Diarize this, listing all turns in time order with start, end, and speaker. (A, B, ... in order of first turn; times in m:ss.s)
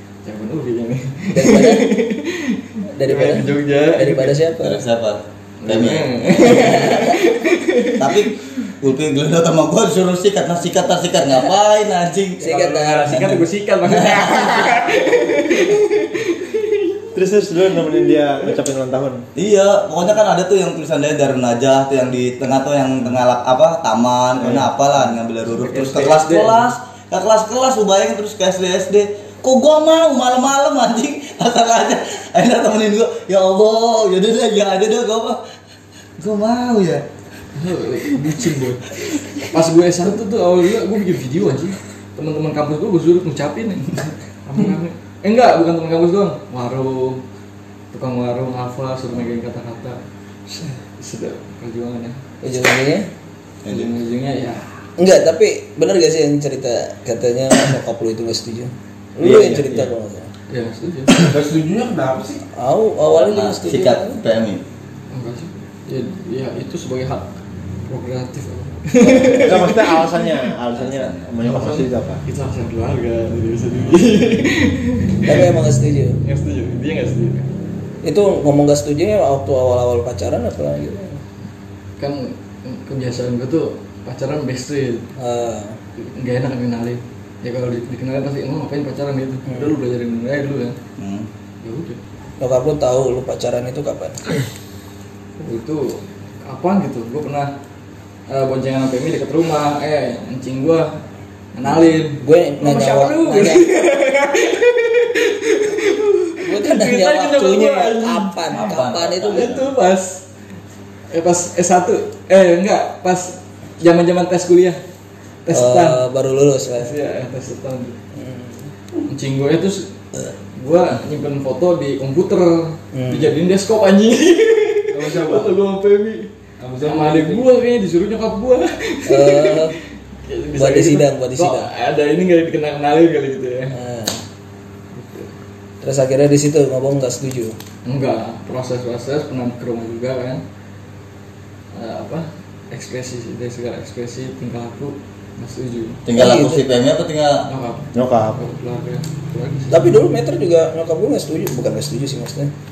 0:00.2-0:04.4 A
0:01.3-0:01.9 B
0:03.0-0:04.8 B
0:04.6-0:06.8 C
0:05.6-0:08.2 A
0:06.4-0:07.2 B
0:08.0-0:12.5 C
0:12.4-0:13.5 B
0:12.4-0:18.5 A
0:13.8-0:14.8 C
0:17.1-0:19.2 D
0:19.4-0:35.4 C
0:24.4-0:24.7 D
0:25.6-0:26.7 A
0:36.2-0:37.0 C
0:37.6-0:47.2 A
0:47.9-0:52.2 A
0:52.4-0:53.1 B
0:53.6-0:53.9 C
0:53.7-0:54.7 A
0:55.0-1:00.3 B
0:59.3-0:59.9 C
1:00.5-1:01.3 A
1:01.2-1:02.4 E
1:02.6-1:04.2 B
1:03.1-1:04.6 C
1:05.1-1:07.3 A
1:07.9-1:10.3 A
1:09.0-1:09.5 B
1:09.4-1:12.2 D
1:10.7-1:11.2 C
1:11.4-1:15.5 A
1:15.2-1:16.2 B
1:16.2-1:17.5 A
1:18.0-1:21.2 B
1:22.0-1:25.1 A
1:25.2-1:25.8 B
1:26.0-1:30.8 A
1:29.5-1:29.7 B
1:31.0-1:31.3 C
1:31.6-1:32.0 A
1:32.4-1:34.2 B
1:35.4-1:37.5 A
1:38.3-1:40.9 A
1:41.6-1:50.2 A
1:42.2-1:43.7 B
1:46.4-1:49.5 B
1:48.5-1:49.7 C
1:51.1-1:54.8 A
1:55.4-1:56.0 A
1:55.5-1:56.9 B
1:56.8-1:58.0 A
1:58.1-1:58.7 B
1:59.1-1:59.9 A
2:00.6-2:06.3 A
2:02.9-2:03.3 B
2:04.9-2:05.6 E
2:06.6-2:07.5 E
2:06.8-2:13.8 A
2:09.1-2:09.8 B
2:10.6-2:11.7 B
2:13.7-2:14.2 B
2:14.9-2:15.3 A
2:15.8-2:17.6 B
2:17.9-2:20.4 A
2:21.7-2:26.0 A
2:26.1-2:27.4 C
2:26.2-2:26.6 B
2:27.5-2:29.9 A
2:27.9-2:28.4 D
2:29.7-2:32.5 B